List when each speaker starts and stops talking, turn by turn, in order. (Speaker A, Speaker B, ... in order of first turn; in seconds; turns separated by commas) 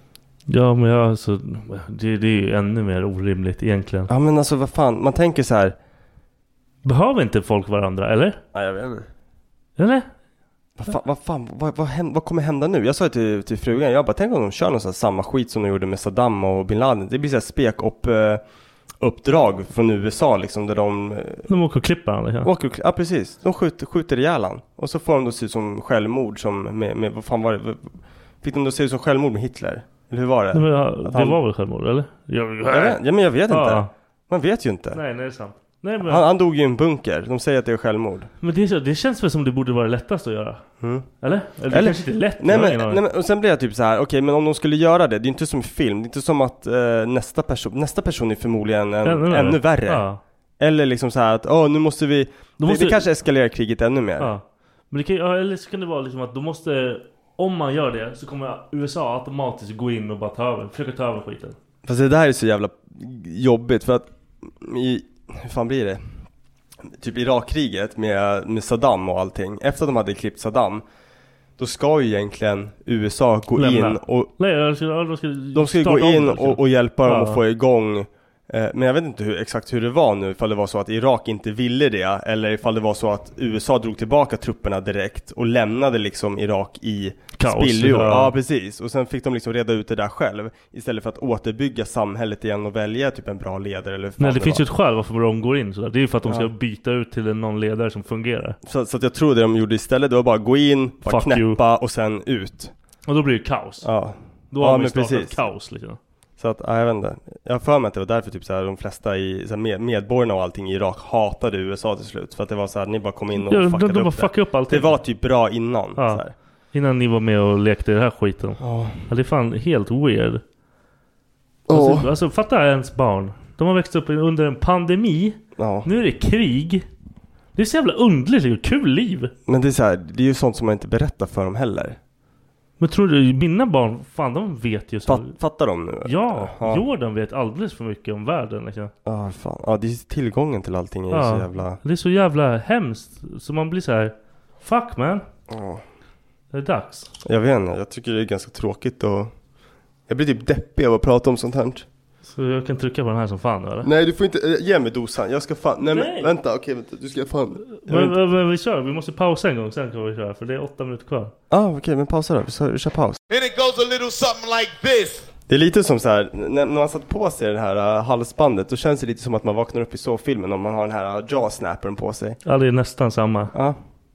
Speaker A: 0.5-4.1, Speaker B: 4.1-5.8, Speaker A: 6.8-8.4, Speaker B: 8.5-9.1, Speaker A: 9.8-10.1, Speaker B: 10.8-18.4, Speaker B: 19.0-21.5, Speaker A: 21.5-22.5, Speaker B: 22.4-31.4, Speaker A: 30.5-33.9, Speaker B: 32.7-35.0, Speaker A: 34.9-36.2, Speaker B: 36.0-38.3, Speaker A: 38.4-40.6, Speaker B: 40.8-41.1, Speaker A: 41.2-43.0, Speaker B: 41.7-50.0, Speaker A: 49.0-50.2, Speaker B: 50.6-54.3, Speaker A: 52.6-53.0, Speaker A: 54.2-61.5, Speaker B: 61.9-66.0, Speaker B: 67.0-70.8, Speaker B: 71.6-74.3, Speaker A: 73.6-77.4, Speaker B: 75.5-94.6, Speaker A: 87.4-88.3, Speaker A: 94.2-98.6, Speaker B: 98.6-102.7, Speaker A: 101.0-101.6, Speaker A: 103.0-103.9, Speaker B: 103.8-105.4, Speaker A: 104.5-106.0, Speaker B: 106.4-116.3, Speaker A: 113.3-115.0, Speaker A: 116.0-120.4, Speaker B: 118.6-119.1, Speaker B: 121.7-122.1, Speaker A: 121.7-126.8, Speaker B: 125.6-125.9, Speaker A: 127.5-129.3, Speaker B: 129.5-132.0, Speaker A: 132.8-135.3, Speaker B: 135.1-136.8, Speaker A: 136.0-138.9, Speaker B: 139.1-141.8, Speaker A: 141.1-145.2, Speaker B: 145.5-145.8, Speaker A: 146.5-147.1, Speaker B: 147.2-149.3, Speaker B: 150.1-151.8, Speaker A: 152.3-153.9, Speaker B: 153.8-158.2, Speaker A: 155.8-156.3, Speaker A: 157.8-161.3, Speaker B: 161.5-163.2, Speaker C: 163.3-165.3, Speaker B: 165.5-172.4, Speaker A: 172.4-173.5, Speaker B: 173.5-173.8